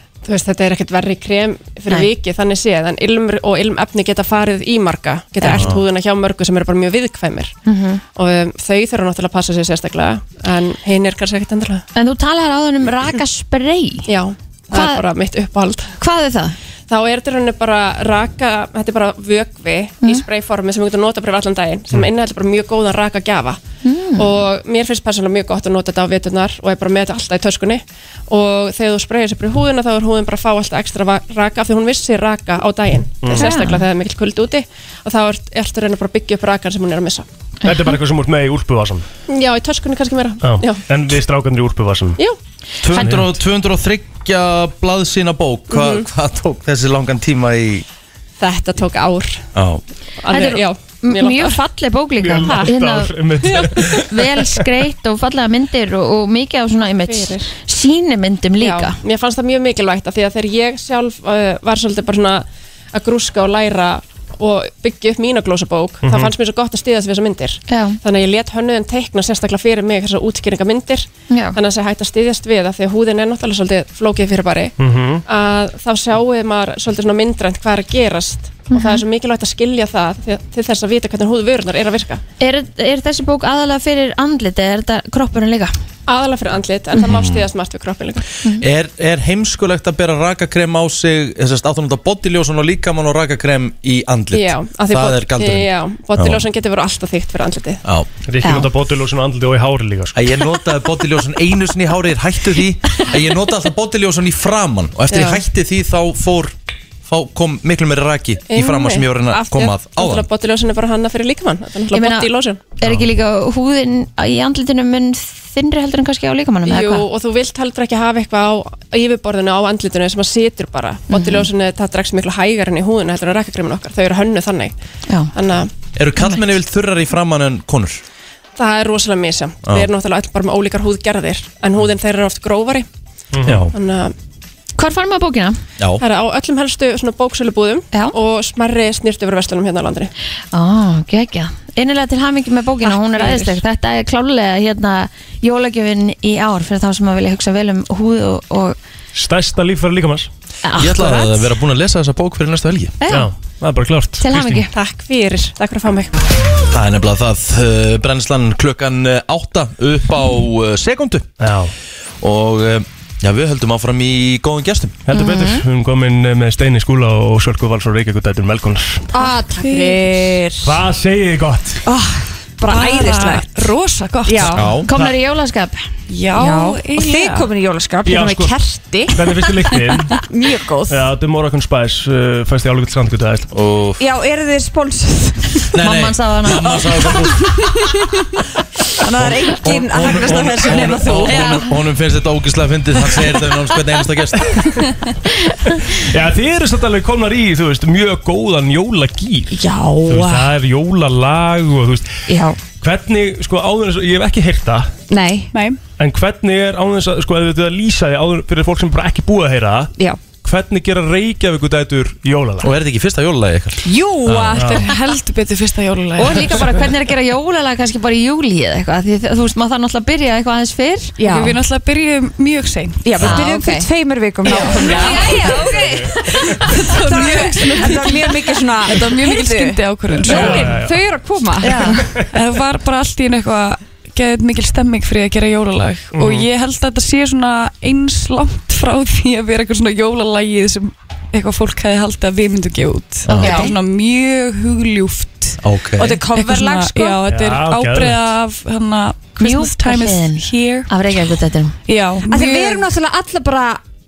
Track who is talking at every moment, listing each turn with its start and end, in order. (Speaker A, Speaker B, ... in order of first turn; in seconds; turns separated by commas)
Speaker A: 0.2-7.5, Speaker B: 5.5-5.8, Speaker C: 7.7-8.0, Speaker A: 8.2-11.8, Speaker C: 11.9-14.1, Speaker A: 14.1-15.9, Speaker C: 14.7-15.0, Speaker C: 16.0-16.6, Speaker A: 16.9-23.6, Speaker C: 23.8-24.4, Speaker A: 24.2-37.3, Speaker D: 33.2-33.5, Speaker C: 33.3-33.8, Speaker C: 37.6-38.0, Speaker D: 37.6-39.1, Speaker A: 39.3-40.8, Speaker D: 40.4-42.2, Speaker B: 42.8-47.9, Speaker D: 42.9-43.4, Speaker A: 45.7-46.1, Speaker A: 48.4-49.4, Speaker B: 49.5-49.8, Speaker A: 50.2-51.6, Speaker C: 50.3-59.0, Speaker D: 52.2-54.6, Speaker A: 52.4-52.7, Speaker A: 56.9-57.5, Speaker A: 58.6-74.7, Speaker D: 66.0-66.3, Speaker C: 67.7-68.0, Speaker C: 71.3-71.6, Speaker D: 74.8-75.2, Speaker A: 75.3-82.2, Speaker C: 78.7-79.0, Speaker C: 82.4-85.7, Speaker A: 86.1-88.3, Speaker B: 88.6-96.4, Speaker A: 94.3-97.8, Speaker D: 98.3-100.2, Speaker B: 100.2-110.3, Speaker A: 105.1-105.4, Speaker A: 108.5-112.6, Speaker C: 111.9-117.1, Speaker A: 116.7-124.7, Speaker C: 121.1-121.5, Speaker A: 125.3-125.7, Speaker B: 126.0-128.0, Speaker A: 128.6-132.9, Speaker D: 133.3-133.6, Speaker B: 133.4-133.7, Speaker A: 133.7-134.1, Speaker C: 134.8-135.6, Speaker A: 136.0-140.1, Speaker C: 140.5-148.8, Speaker A: 142.8-143.6, Speaker D: 149.1-150.3, Speaker C: 150.7-151.4, Speaker B: 150.8-153.0, Speaker C: 153.0-153.3, Speaker D: 153.1-154.7, Speaker C: 154.2-154.7, Speaker A: 154.7-156.2, Speaker B: 156.7-161.3, Speaker D: 161.4-161.7, Speaker B: 162.2-165.0, Speaker D: 165.1-169.1, Speaker C: 165.2-165.6, Speaker E: 169.1-170.8, Speaker F: 169.2-170.4, Speaker D: 170.6-171.8, Speaker E: 171.9-173.6, Speaker F: 172.6-174.7, Speaker E: 174.3-174.8, Speaker B: 174.5-174.9, Speaker C: 174.8-175.8, Speaker F: 176.1-177.5, Speaker E: 176.3-179.4, Speaker D: 178.1-178.6, Speaker D: 179.1-180.2, Speaker E: 180.0-181.0, Speaker D: 180.9-183.5, Speaker B: 183.5-184.0, Speaker E: 184.0-185.7, Speaker B: 185.7-187.8, Speaker C: 185.8-187.1, Speaker E: 189.0-191.6, Speaker B: 189.2-194.7, Speaker C: 191.3-191.6, Speaker D: 195.9-202.2, Speaker E: 199.5-200.5, Speaker E: 202.3-202.6, Speaker D: 202.8-204.9, Speaker E: 205.1-205.5, Speaker F: 205.5-205.8, Speaker D: 206.0-209.9, Speaker D: 210.4-212.7, Speaker B: 212.6-214.6, Speaker E: 213.8-215.0, Speaker D: 214.6-214.8, Speaker F: 214.6-216.7, Speaker C: 216.2-221.2, Speaker E: 216.4-216.7, Speaker E: 221.2-221.6, Speaker F: 221.2-223.4, Speaker E: 223.1-232.2, Speaker C: 223.2-223.9, Speaker F: 224.5-230.9, Speaker C: 224.9-225.8, Speaker D: 230.2-230.9, Speaker F: 231.7-245.6, Speaker D: 236.1-236.5, Speaker B: 243.3-243.6, Speaker E: 243.4-243.8, Speaker B: 245.6-246.2, Speaker E: 246.0-247.2, Speaker F: 246.3-250.9, Speaker D: 247.3-248.3, Speaker C: 249.4-251.8, Speaker F: 251.9-252.9, Speaker E: 252.3-253.8